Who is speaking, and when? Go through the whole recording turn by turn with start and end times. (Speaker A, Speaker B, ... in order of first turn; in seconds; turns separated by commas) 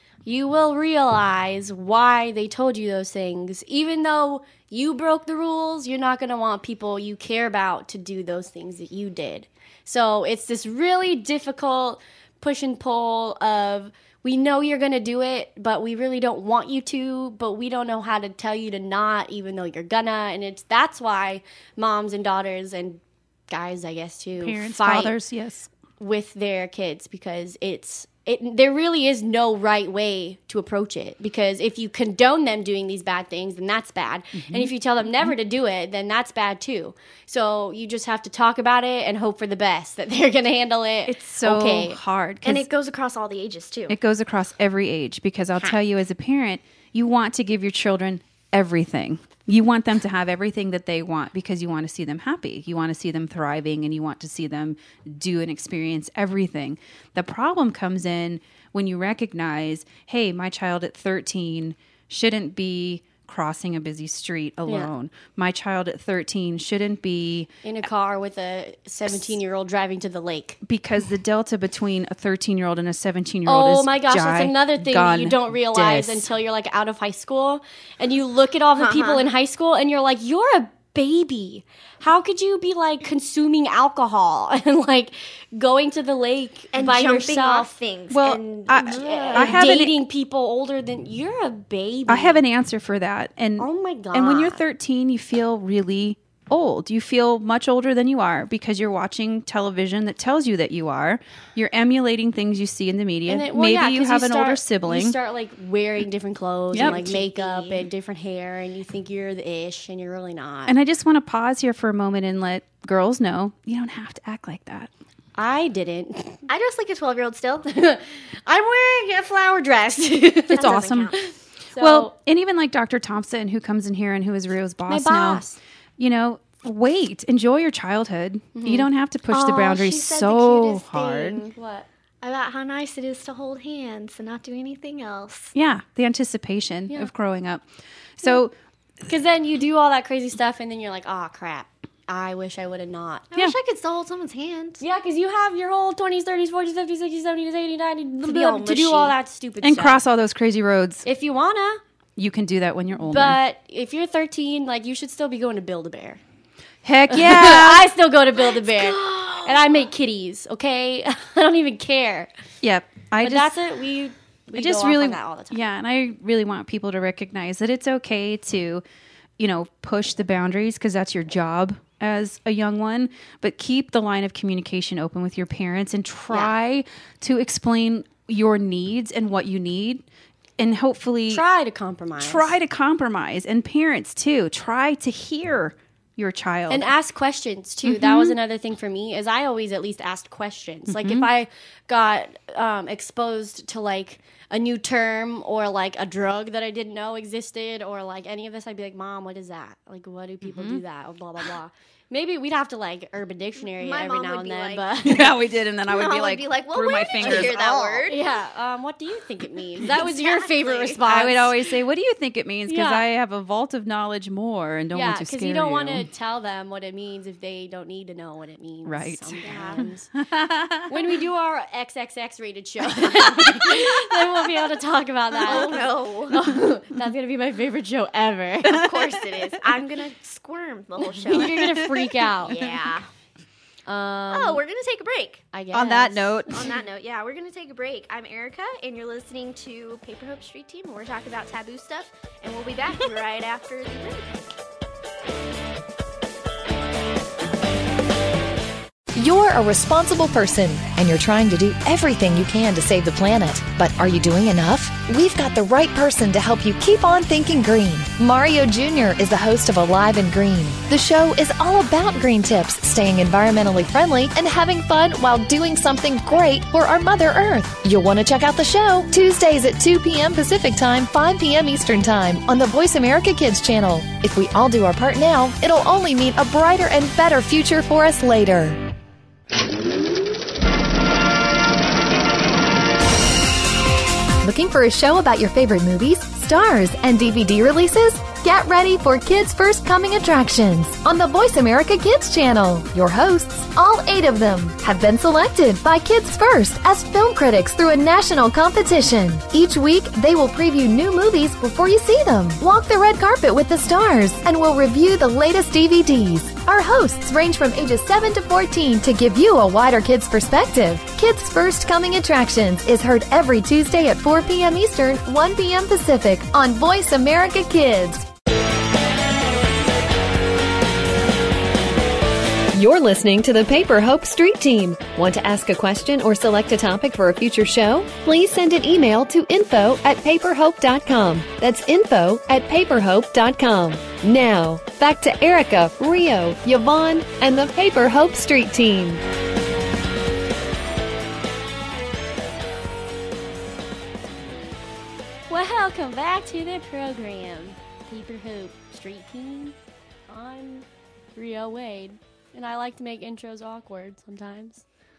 Speaker A: 0.2-25.1, Speaker B: 24.4-25.7, Speaker A: 26.0-42.0, Speaker B: 34.4-35.3, Speaker B: 41.0-42.7, Speaker C: 42.4-44.0, Speaker B: 43.9-67.5, Speaker A: 64.7-64.9, Speaker A: 67.6-70.6, Speaker B: 70.6-76.3, Speaker A: 73.5-87.7, Speaker C: 78.7-79.2, Speaker C: 86.7-89.9, Speaker B: 88.1-90.0, Speaker A: 88.8-92.4, Speaker B: 92.1-105.2, Speaker A: 93.6-94.6, Speaker A: 103.3-110.7, Speaker B: 106.7-107.0, Speaker C: 106.7-107.8, Speaker B: 110.7-114.9, Speaker A: 115.3-116.4, Speaker C: 116.5-117.7, Speaker A: 117.7-122.1, Speaker C: 120.5-121.2, Speaker B: 120.6-121.1, Speaker B: 121.8-125.4, Speaker A: 124.9-125.6, Speaker B: 126.0-131.4, Speaker A: 128.5-128.9, Speaker C: 129.3-131.5, Speaker A: 131.5-131.9, Speaker C: 132.2-135.5, Speaker B: 135.5-137.6, Speaker B: 138.2-138.5, Speaker A: 139.0-143.2, Speaker C: 143.3-144.8, Speaker A: 144.8-150.0, Speaker C: 148.2-149.2, Speaker B: 149.6-151.1, Speaker A: 151.0-151.8, Speaker B: 152.2-153.4, Speaker A: 153.0-156.2, Speaker B: 156.8-157.9, Speaker A: 157.1-162.3, Speaker C: 158.4-159.9, Speaker B: 162.6-163.6, Speaker A: 163.2-165.6, Speaker B: 164.5-168.8, Speaker B: 169.4-180.0, Speaker B: 180.6-181.4, Speaker A: 181.3-182.5, Speaker B: 182.2-186.9, Speaker A: 186.7-205.3, Speaker B: 187.8-188.4, Speaker B: 190.9-191.3, Speaker B: 200.4-200.8, Speaker C: 203.6-204.9, Speaker B: 205.0-208.1, Speaker C: 205.9-208.2, Speaker A: 207.2-207.5, Speaker A: 208.1-211.6, Speaker C: 209.9-211.0, Speaker B: 211.0-216.1, Speaker A: 212.7-213.1, Speaker A: 214.9-220.1, Speaker B: 218.8-221.1, Speaker C: 219.4-219.9, Speaker A: 220.8-228.8, Speaker C: 225.4-226.4, Speaker C: 228.6-231.8, Speaker B: 228.7-229.3, Speaker A: 231.1-232.6, Speaker B: 231.4-232.2, Speaker C: 232.4-233.1, Speaker A: 233.8-234.6, Speaker C: 234.3-235.4, Speaker A: 235.5-236.6, Speaker B: 235.7-236.7, Speaker C: 236.5-244.5, Speaker D: 249.2-278.8, Speaker D: 284.4-318.3, Speaker D: 322.7-339.2, Speaker A: 345.5-349.8, Speaker A: 350.3-354.8